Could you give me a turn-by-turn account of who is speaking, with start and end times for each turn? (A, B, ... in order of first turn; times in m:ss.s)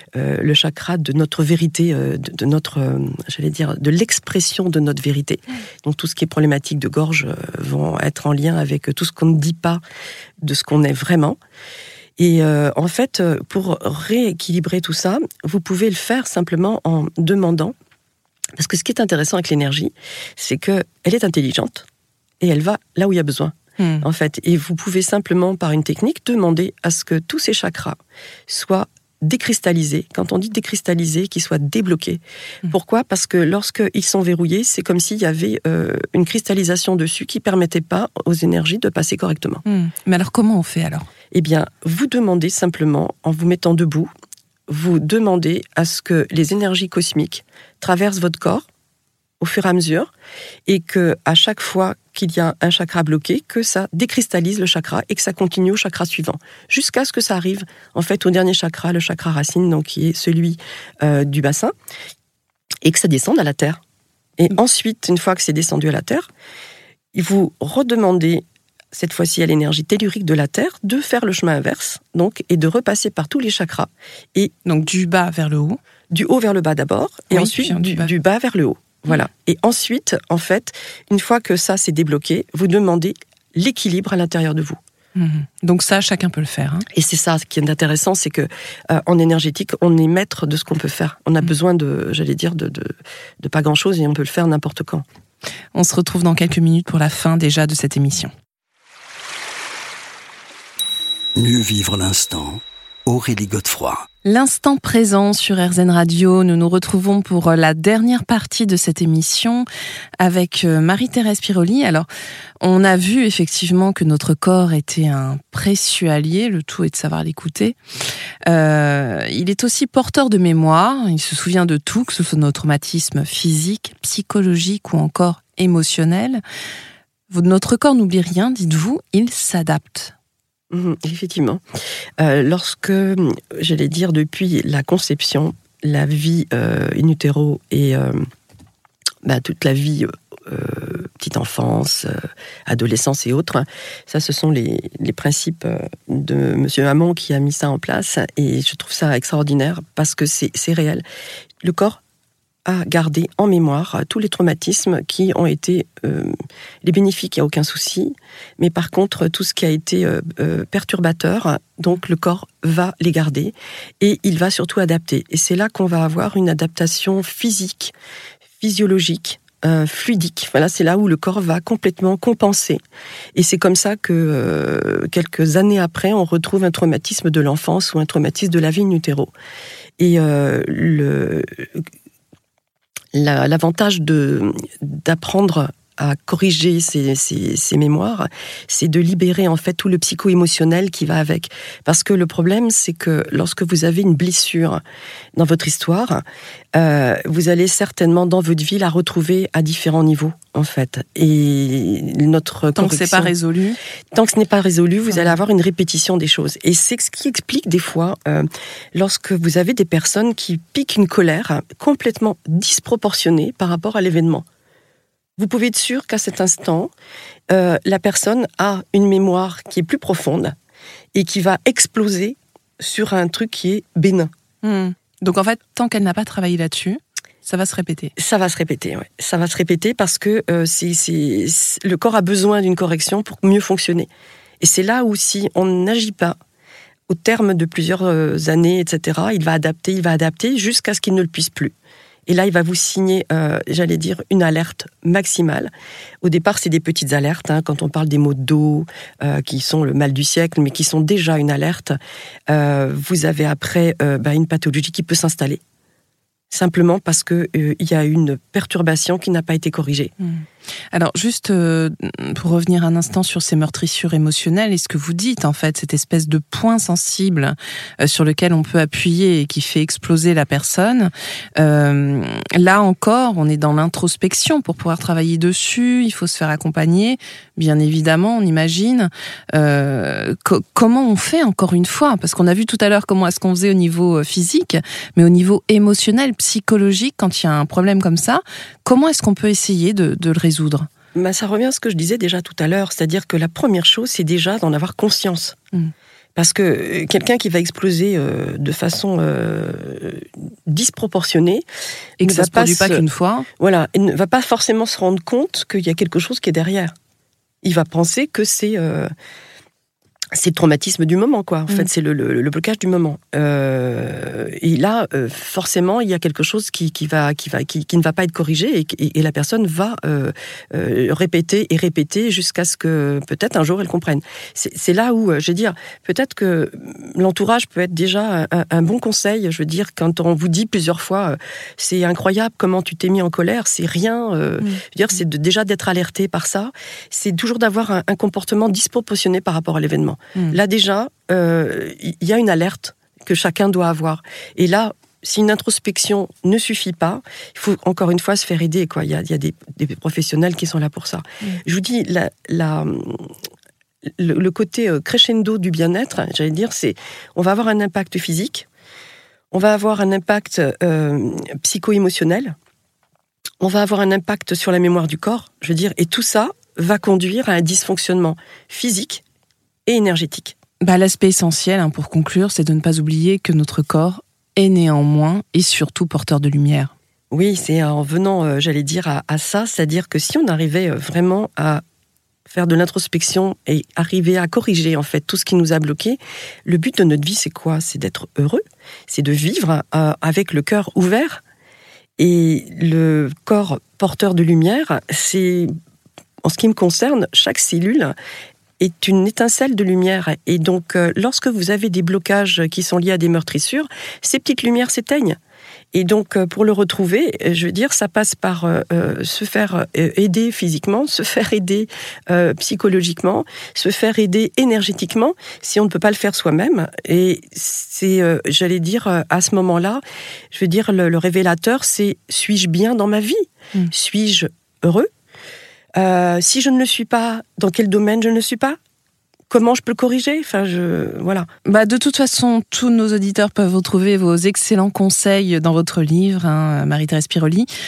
0:00.2-0:09.8 A
0:10.4-0:11.4 A
0:12.2-0:17.7 A
0:18.6-0:21.8 A
0:22.4-0:39.6 A
0:23.8-0:24.0 B
0:39.6-0:41.1 B
0:41.3-0:44.1 A
0:44.7-0:48.6 A
0:49.4-0:50.1 A
0:50.7-1:01.7 A
1:02.8-1:03.8 A
1:04.4-1:06.3 A
1:07.1-1:14.5 A
1:14.6-1:15.8 B
1:16.1-1:24.8 A
1:17.3-1:18.1 B
1:25.1-1:26.9 B
1:26.9-1:35.0 A
1:35.7-1:38.3 B
1:41.4-1:44.1 C
1:44.2-1:49.6 B
1:50.2-1:52.1 B
1:52.6-1:57.8 B
1:58.5-2:06.4 B
2:07.3-2:10.1 B
2:10.7-2:11.6 A
2:12.2-2:18.2 A
2:19.2-2:22.1 A
2:22.7-2:31.0 A
2:31.6-2:32.0 A
2:32.6-2:36.3 A
2:36.8-2:47.9 A
2:48.6-2:52.8 A
2:53.3-2:59.3 A
3:00.0-3:01.8 A
3:03.1-3:14.8 A
3:15.4-3:16.2 A
3:16.7-3:23.3 A
3:22.7-3:23.8 B
3:24.1-3:34.4 A
3:25.1-3:25.4 B
3:35.4-3:36.9 A
3:37.5-3:40.5 A
3:41.1-3:44.3 A
3:44.6-3:48.1 B
3:48.2-3:54.1 A
3:54.6-3:56.4 A
3:57.1-4:01.7 A
4:02.3-4:05.7 A
4:06.2-4:12.0 A
4:12.5-4:15.6 A
4:16.5-4:20.1 A
4:20.2-4:50.9 B
4:51.1-4:55.6 A
4:56.4-5:01.6 A
5:02.2-5:03.5 B
5:02.2-5:03.0 A
5:03.6-5:06.9 A
5:07.6-5:09.1 A
5:10.3-5:53.3 A
5:34.6-5:35.2 B
5:54.2-5:58.7 A
5:59.5-6:02.5 A
6:03.6-6:09.2 A
6:09.9-6:10.5 A
6:10.8-6:16.9 B
6:17.3-6:21.8 A
6:22.5-6:31.4 A
6:32.2-6:35.7 A
6:36.4-6:38.1 A
6:38.8-6:45.4 A
6:45.9-7:05.1 A
7:06.0-7:08.8 A
7:09.5-7:11.5 A
7:11.6-7:17.7 B